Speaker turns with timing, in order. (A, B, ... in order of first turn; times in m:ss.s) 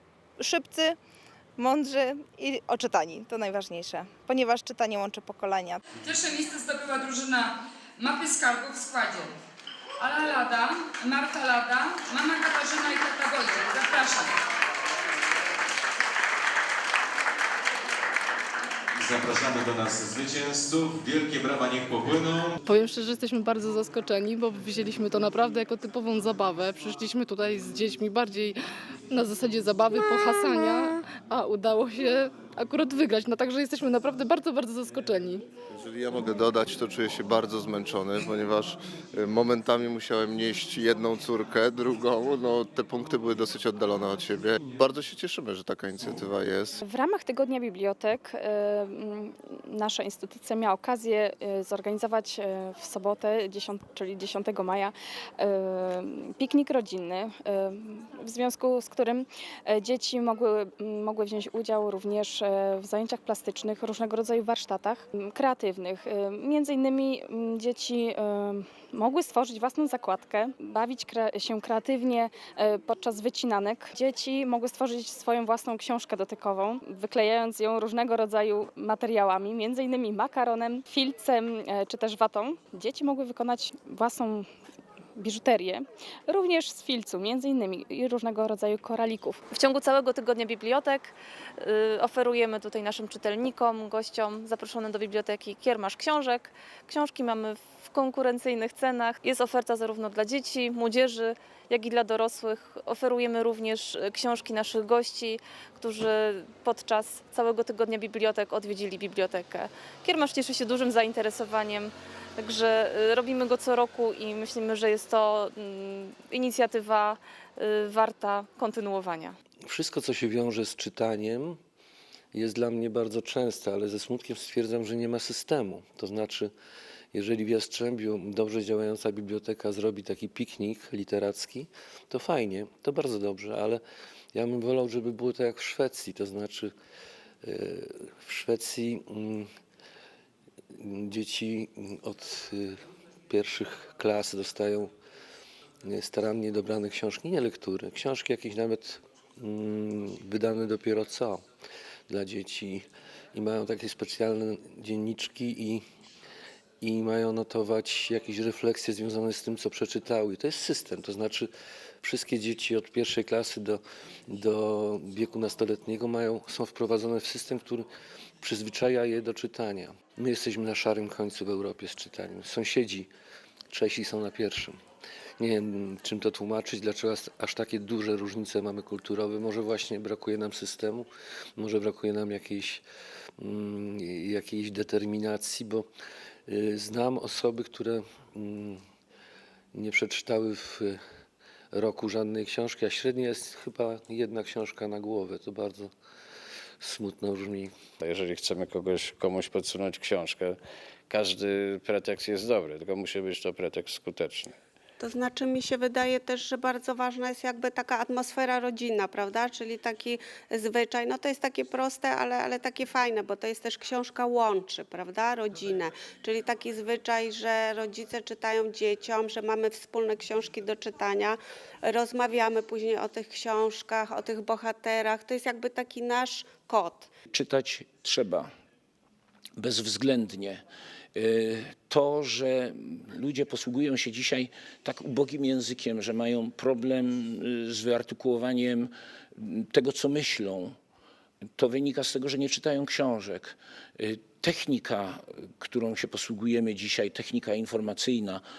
0:00.4-0:01.0 A
0:01.6-0:05.8 A
0:06.0-0:09.4 B
0:10.0-0:14.3 B
0:19.0-0:22.5 C
0:22.6-0:28.5 D
0:29.1-0:35.4 D
0:35.7-0:46.8 E
0:46.8-1:24.4 F
1:25.2-1:29.4 F
1:29.5-1:59.4 G
1:59.6-2:01.6 H
2:02.3-2:06.5 H
2:07.1-2:13.8 H
2:14.3-2:16.7 H
2:17.4-2:19.5 H
2:20.7-2:22.8 H
2:23.3-2:24.9 H
2:25.8-2:31.4 H
2:32.1-2:35.8 H
2:36.8-2:41.5 H
2:42.0-2:47.8 H
2:48.4-2:53.1 H
2:53.7-2:54.8 H
2:55.4-3:02.8 H
3:03.4-3:05.9 H
3:06.5-3:08.8 H
3:09.7-3:11.0 H
3:11.7-3:15.9 H
3:16.8-3:17.8 H
3:18.0-3:24.5 I
3:25.0-3:47.1 J
3:47.3-3:48.5 K
3:49.6-3:50.6 K
3:51.1-4:00.7 K
4:01.6-4:08.4 K